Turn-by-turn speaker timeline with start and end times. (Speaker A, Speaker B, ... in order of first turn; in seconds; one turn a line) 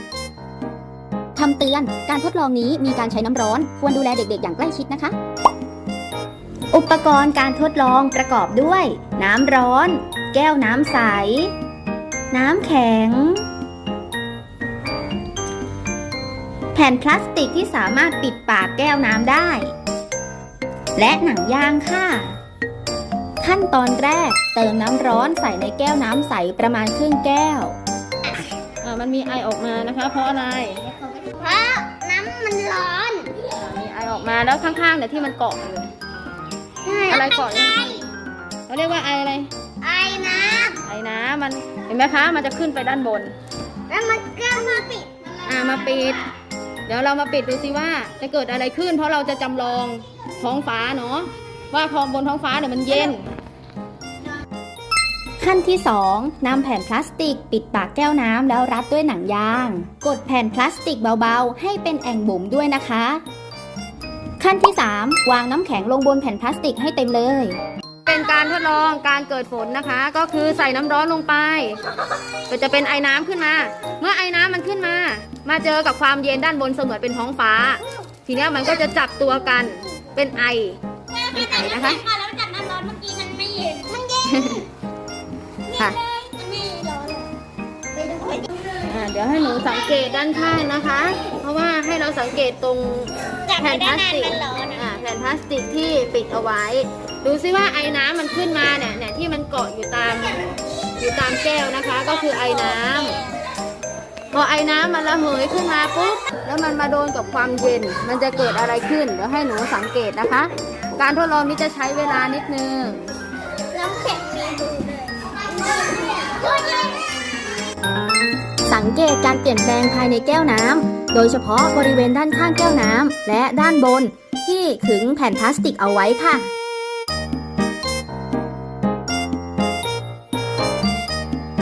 Speaker A: 1.4-5.2
Speaker A: 6.7-11.5
Speaker A: 12.3-13.4
Speaker A: 16.7-19.7
Speaker A: 21.0-22.4
Speaker A: 23.4-27.8
Speaker B: 28.8-31.2
Speaker C: 31.3-33.4
Speaker B: 33.5-35.9
Speaker C: 36.8-38.0
Speaker B: 37.1-38.1
Speaker B: 38.7-39.5
Speaker C: 39.8-40.8
Speaker B: 40.8-43.3
Speaker C: 43.9-45.4
Speaker B: 45.5-46.2
Speaker B: 46.9-53.2
Speaker A: 55.4-63.2
Speaker A: 64.4-67.6
Speaker B: 68.1-71.8
Speaker B: 72.5-80.8
Speaker B: 81.3-82.0
Speaker C: 81.3-84.6
Speaker B: 84.2-84.6
Speaker C: 85.8-87.3
Speaker C: 88.0-88.5
Speaker B: 88.8-100.4
Speaker C: 93.5-94.8
Speaker B: 101.0-103.2
Speaker B: 104.3-113.2
Speaker C: 113.7-117.1
Speaker A: 118.7-126.5